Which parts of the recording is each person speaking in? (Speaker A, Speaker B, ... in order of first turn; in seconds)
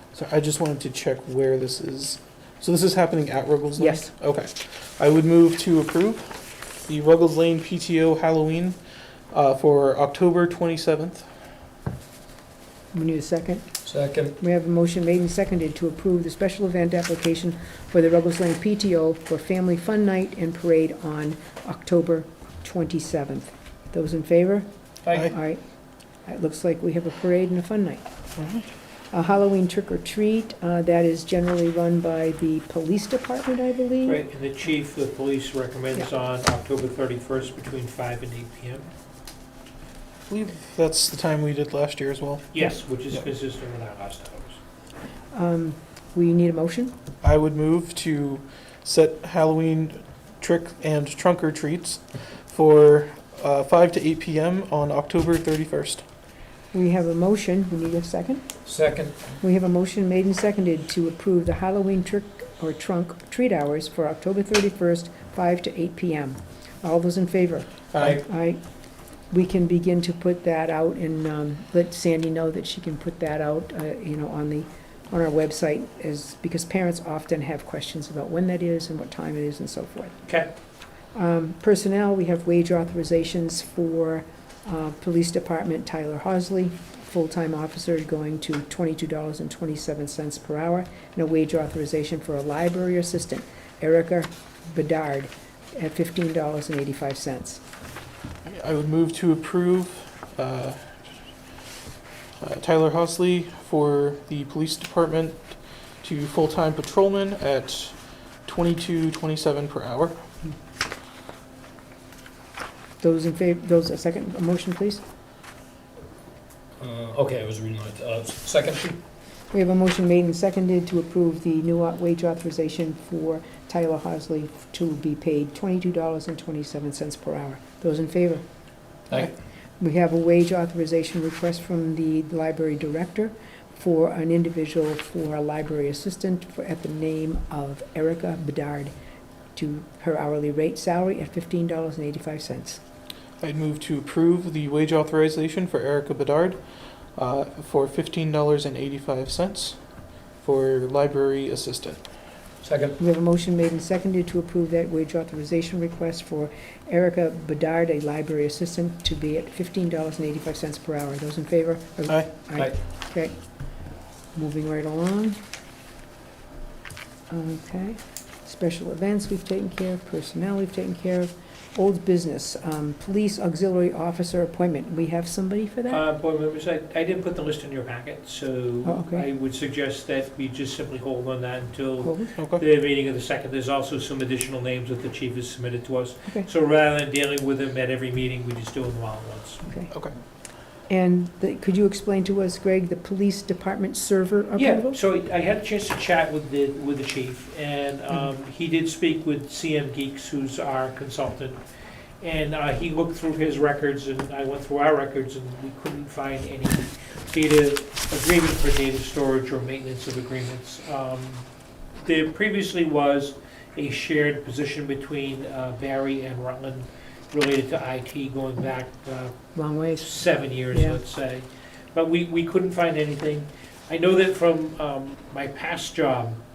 Speaker A: 0.1-8.8, 9.3-11.3, 28.4-28.7, 40.3-42.5, 47.2-56.0, 98.5-101.0, 102.4-110.2, 143.4-149.8, 150.4-152.0, 182.4-182.6
Speaker B: 3.8-4.1, 12.9-13.7, 14.4-25.6, 26.2-28.1, 29.1-34.2, 45.3-46.9, 56.7-58.5, 59.4-68.6, 69.3-80.2, 81.1-97.6, 113.0-115.0, 119.5-128.4, 129.8-138.9, 139.6-142.8, 153.0-163.4, 164.3-165.4, 167.3-176.0, 178.8-179.2, 182.0-182.3, 189.7-189.9, 190.9-195.0, 219.6-221.0
Speaker C: 13.8-14.4, 58.6-59.4, 67.9-68.2, 116.8-119.0, 152.6-153.0
Speaker D: 25.1-25.3, 34.0-38.9, 42.5-44.6, 175.9-189.7, 194.6-201.6, 202.2-219.3, 219.9-226.4